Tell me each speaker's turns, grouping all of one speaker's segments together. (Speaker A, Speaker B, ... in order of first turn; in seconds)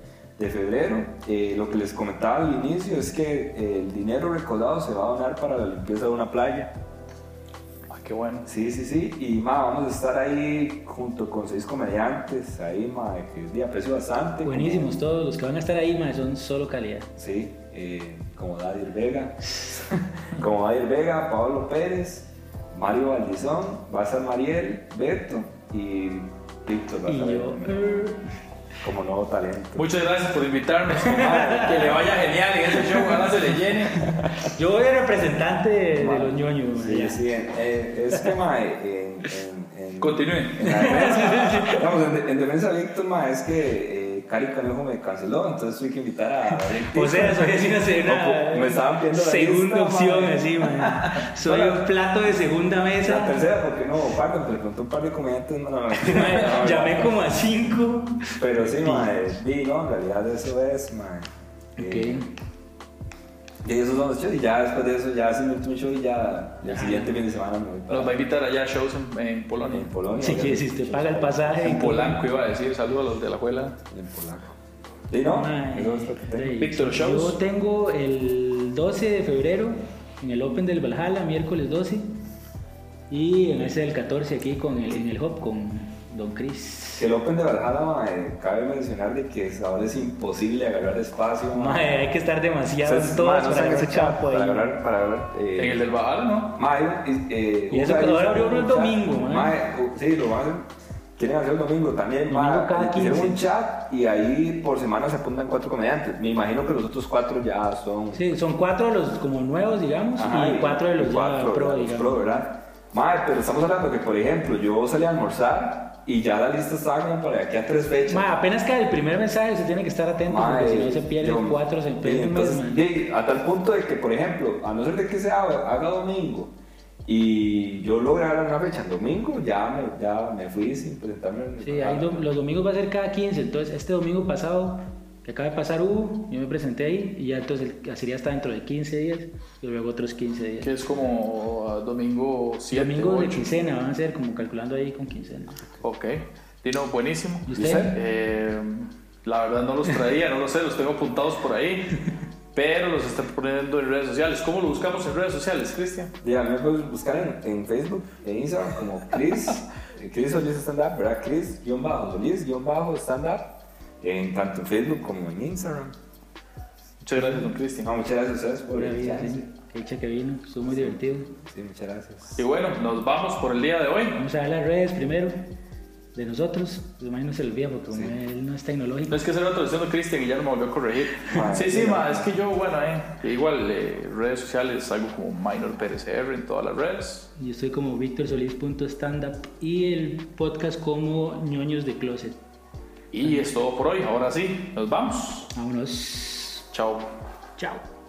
Speaker A: 0.4-6.7, 8.4-15.0, 17.2-28.1, 28.8-29.9, 31.0-32.1, 36.0-51.9, 53.0-57.2, 58.4-62.3, 63.6-68.2, 69.7-71.8, 73.9-74.6, 75.1-76.6, 87.0-92.0, 92.8-95.8, 96.5-108.3, 110.2-118.4, 120.3-126.5, 127.1-132.3, 156.2-165.9, 167.8-169.4, 170.7-172.4, 181.3-182.3
Speaker B: 7.9-8.5, 29.8-34.1, 40.0-40.9, 67.9-69.9, 71.6-73.8, 76.5-77.4, 95.6-96.6, 140.6-143.6, 145.8-152.0, 152.5-156.1, 167.0-167.9, 172.4-174.2, 179.1-187.3, 193.1-195.5, 196.7-197.1
Speaker C: 14.4-17.1, 27.1-28.2, 31.4-31.8, 34.4-37.2, 40.6-41.9, 46.6-53.4, 56.0-59.1, 61.8-62.3, 66.6-67.1, 70.2-72.2, 75.2-82.2, 83.1-87.1, 91.5-94.7, 97.7-99.6, 102.3-103.4, 108.1-112.4, 118.1-122.8, 131.6-140.7, 142.7-145.7, 147.5-147.9, 168.7-171.3, 174.2-175.5, 176.2-179.2, 187.4-192.4, 195.6-196.7, 197.6-197.8